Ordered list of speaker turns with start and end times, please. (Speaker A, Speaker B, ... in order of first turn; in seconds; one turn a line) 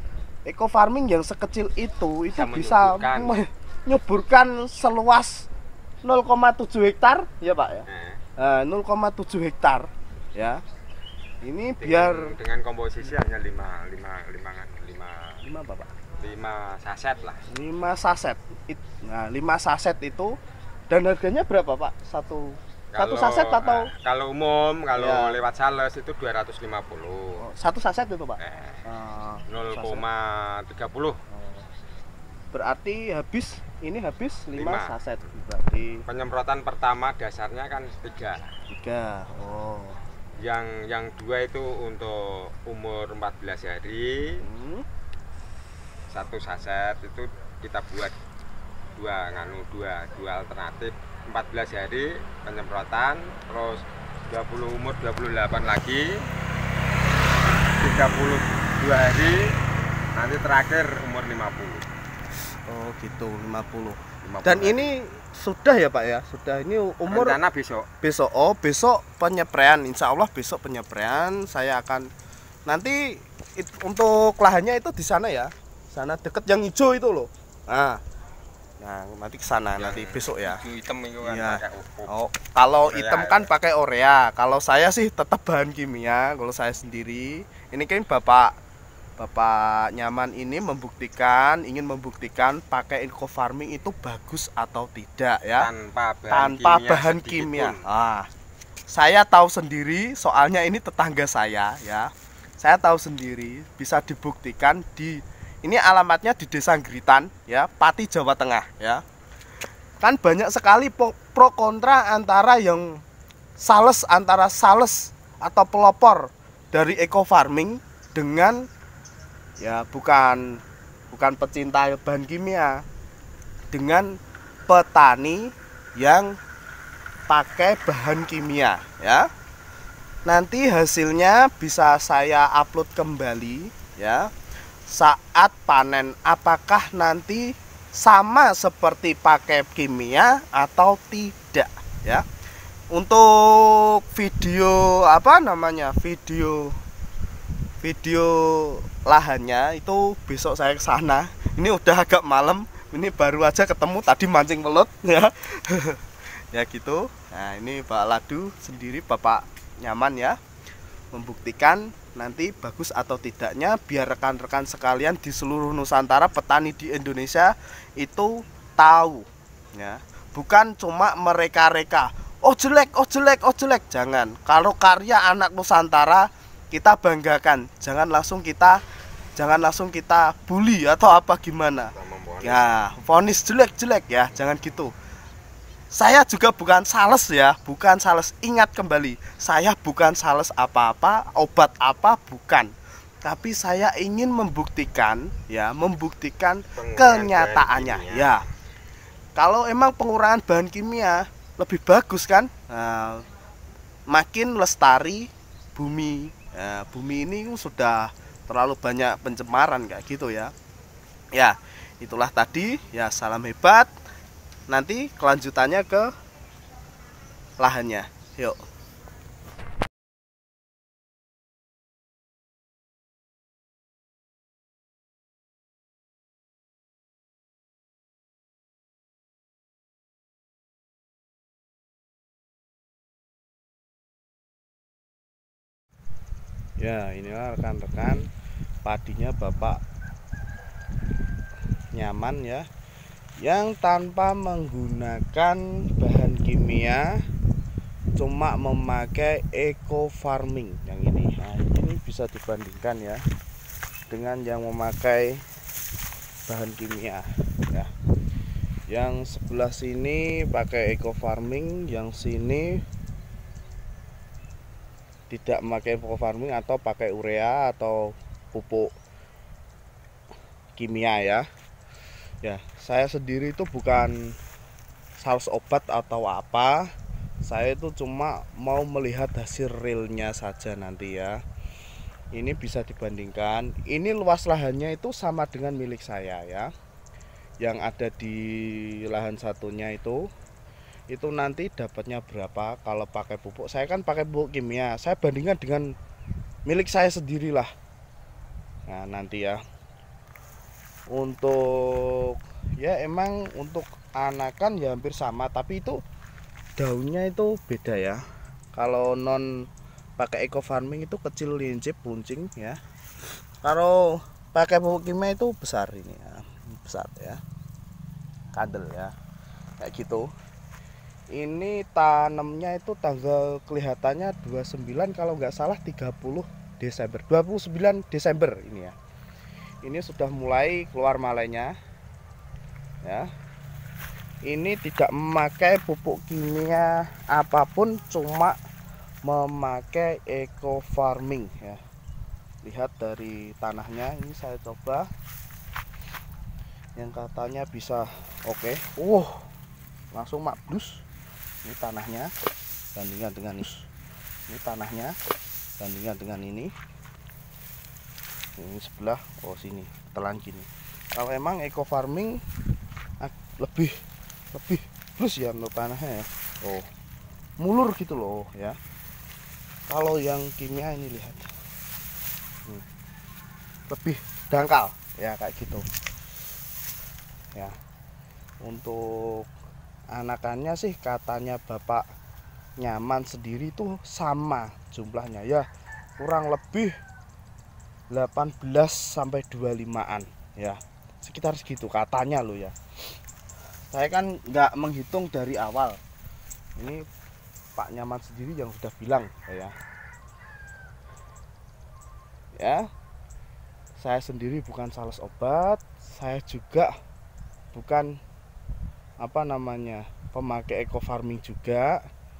Speaker A: 0.5-5.5
Speaker B: 2.3-3.4
Speaker A: 6.0-10.6
Speaker B: 7.9-8.2
Speaker A: 11.4-12.3
Speaker B: 11.8-15.4
Speaker A: 15.4-15.9
Speaker B: 16.2-17.4
Speaker A: 17.5-20.4
Speaker A: 20.9-23.9
Speaker B: 22.9-27.4
Speaker A: 24.9-25.4
Speaker A: 27.4-30.0
Speaker B: 28.4-28.8
Speaker B: 29.5-31.2
Speaker A: 31.3-31.6
Speaker A: 32.5-36.0
Speaker B: 34.5-34.9
Speaker B: 36.1-38.5
Speaker A: 38.7-40.0
Speaker B: 40.4-44.4
Speaker A: 44.4-44.9
Speaker B: 46.1-48.1
Speaker B: 49.0-56.2
Speaker B: 57.7-59.5
Speaker B: 60.1-61.8
Speaker A: 62.7-67.4
Speaker B: 64.2-64.9
Speaker B: 67.1-67.9
Speaker A: 68.0-72.0
Speaker A: 72.7-78.0
Speaker A: 78.8-80.6
Speaker B: 79.8-82.1
Speaker A: 81.2-88.5
Speaker B: 82.8-83.5
Speaker A: 89.2-95.7
Speaker B: 95.6-97.8
Speaker A: 96.3-98.3
Speaker A: 98.9-102.1
Speaker A: 102.6-109.0
Speaker A: 110.0-113.0
Speaker A: 113.6-118.7
Speaker A: 119.6-120.6
Speaker A: 121.1-122.8
Speaker A: 123.7-126.3
Speaker A: 127.3-129.3
Speaker A: 130.2-134.3
Speaker A: 134.9-142.2
Speaker A: 142.9-146.8
Speaker A: 147.8-160.4
Speaker A: 161.1-178.8
Speaker A: 179.4-184.9
Speaker B: 181.9-182.8
Speaker A: 185.9-192.7
Speaker A: 193.2-198.5
Speaker B: 196.8-198.4
Speaker A: 199.4-203.2
Speaker A: 204.1-210.5
Speaker A: 211.3-213.9
Speaker A: 214.7-216.1
Speaker A: 217.6-218.6
Speaker A: 236.8-238.2
Speaker A: 238.8-239.8
Speaker A: 241.9-242.6
Speaker A: 243.4-247.1
Speaker A: 248.2-253.2
Speaker A: 254.1-255.4
Speaker A: 256.5-257.9
Speaker A: 258.9-262.8
Speaker A: 265.3-268.9
Speaker A: 270.8-271.4
Speaker A: 272.4-274.1
Speaker A: 275.2-276.9
Speaker A: 277.4-281.4
Speaker A: 282.3-286.7
Speaker A: 287.6-290.2
Speaker A: 291.1-295.9
Speaker A: 296.7-297.7
Speaker A: 298.9-299.6
Speaker A: 301.1-306.0
Speaker A: 306.8-308.2
Speaker A: 308.7-309.4
Speaker A: 310.2-312.8
Speaker A: 313.6-317.4
Speaker A: 318.5-319.1
Speaker A: 319.8-320.3
Speaker A: 321.3-328.9
Speaker A: 329.8-331.7
Speaker A: 334.5-338.6
Speaker A: 339.2-341.8
Speaker A: 342.6-345.1
Speaker A: 346.9-349.4
Speaker A: 350.1-351.0
Speaker A: 351.6-352.3
Speaker A: 352.9-353.9
Speaker A: 354.5-355.1
Speaker A: 355.8-356.7
Speaker A: 358.6-362.4
Speaker A: 363.2-363.9
Speaker A: 364.5-366.9
Speaker A: 367.6-368.8
Speaker A: 369.9-371.5
Speaker A: 373.9-375.8
Speaker A: 378.6-379.5
Speaker A: 380.1-382.0
Speaker A: 382.8-385.6
Speaker A: 386.2-386.9
Speaker A: 388.1-392.7
Speaker A: 393.9-396.0
Speaker A: 396.8-397.0
Speaker A: 397.8-399.7
Speaker A: 402.6-402.9
Speaker A: 404.0-406.9
Speaker A: 407.7-408.2
Speaker A: 409.2-412.0